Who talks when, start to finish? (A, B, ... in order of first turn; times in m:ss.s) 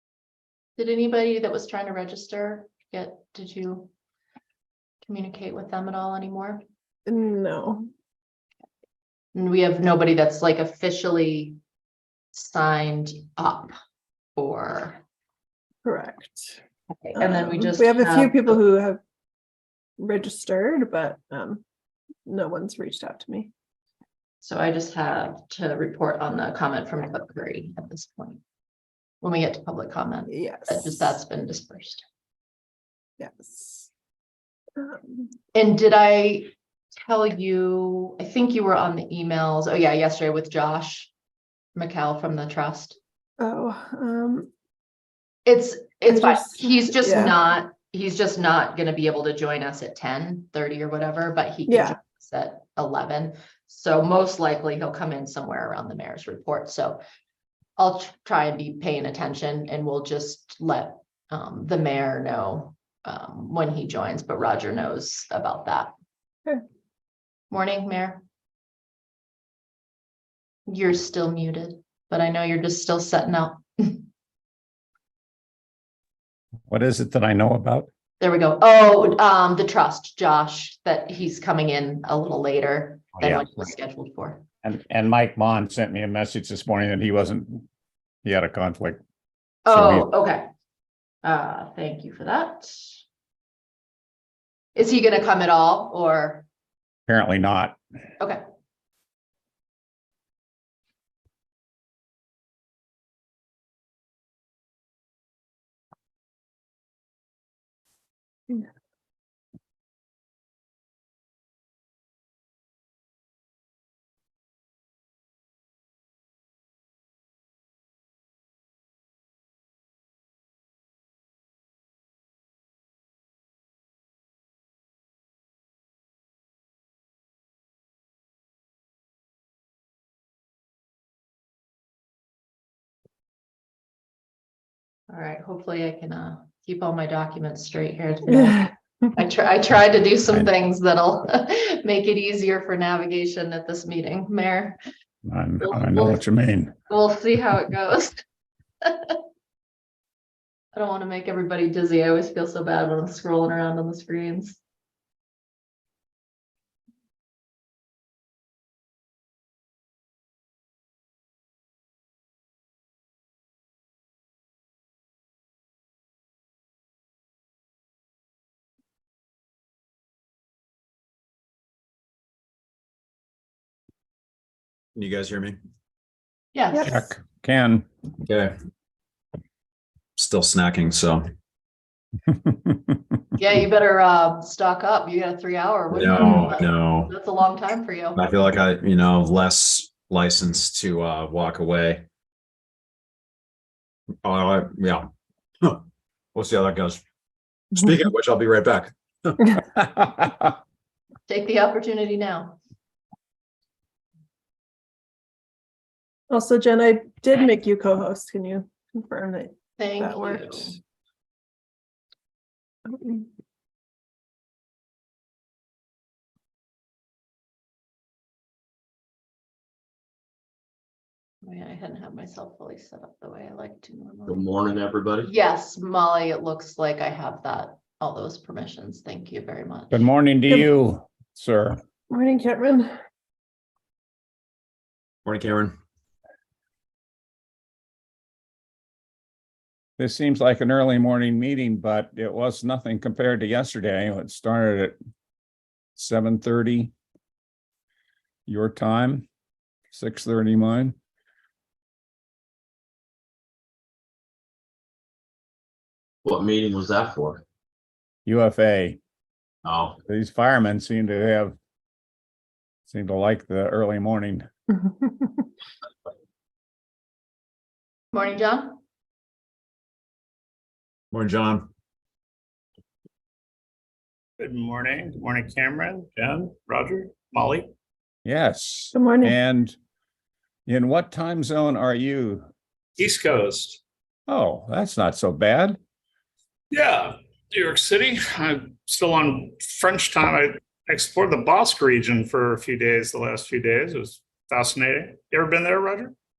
0:00.8-0:03.9 A
0:05.0-0:06.6 A
0:07.1-0:07.9 B
0:09.3-0:11.6 A
0:12.3-0:13.7 A
0:14.4-0:15.0 A
0:15.8-0:16.6 B
0:17.0-0:18.6 A
0:17.2-0:19.0 B
0:20.0-0:21.6 B
0:22.3-0:23.5 B
0:24.4-0:28.4 A
0:29.2-0:32.0 A
0:30.3-0:31.2 B
0:33.2-0:33.9 B
0:34.8-0:35.3 B
0:35.5-0:36.5 A
0:37.1-0:41.1 A
0:41.8-0:43.0 A
0:43.4-0:44.5 B
0:45.4-0:57.0 A
0:46.1-0:47.4 B
0:51.7-0:52.0 B
0:57.8-1:05.9 A
1:07.5-1:08.2 A
1:10.7-1:14.1 A
1:16.7-1:17.9 C
1:18.2-1:24.4 A
1:23.2-1:23.5 C
1:24.6-1:27.6 C
1:28.2-1:29.0 C
1:29.7-1:30.5 A
1:29.7-1:30.1 C
1:31.2-1:32.8 A
1:34.8-1:36.5 A
1:37.1-1:37.8 C
2:15.1-2:24.8 A
2:18.3-2:18.7 B
2:25.2-2:26.7 C
2:25.6-2:26.2 A
2:26.9-2:28.2 A
2:28.8-2:29.2 A
2:30.7-2:34.6 A
2:55.0-2:55.6 D
2:56.5-2:57.1 A
2:56.8-2:57.9 C
2:58.2-2:58.5 D
3:00.2-3:01.2 D
3:02.5-3:02.8 C
3:03.4-3:08.3 A
3:05.9-3:07.1 D
3:08.2-3:12.0 D
3:14.2-3:15.1 D
3:16.3-3:17.0 D
3:17.7-3:19.5 D
3:19.8-3:20.5 C
3:21.3-3:22.6 A
3:26.3-3:30.8 B
3:29.8-3:30.8 A
3:32.9-3:33.3 B
3:41.4-3:44.5 A
3:44.3-3:45.3 E
3:45.2-3:50.1 A
3:49.9-3:51.8 C
3:52.1-3:52.9 B
3:55.2-3:55.7 D
4:00.0-4:05.0 C
4:06.0-4:06.9 C
4:08.5-4:09.3 C
4:09.9-4:11.0 C
4:16.2-4:17.4 E
4:18.3-4:19.0 C
4:19.6-4:19.9 E
4:20.1-4:21.6 C
4:22.9-4:24.5 C
4:28.1-4:28.8 A
4:31.1-4:31.7 D
4:34.4-4:37.7 F
4:38.2-4:39.8 C
4:38.9-4:39.4 B
4:40.7-4:42.5 C
4:43.0-4:43.8 F
4:44.3-4:45.8 C
4:46.7-4:56.1 F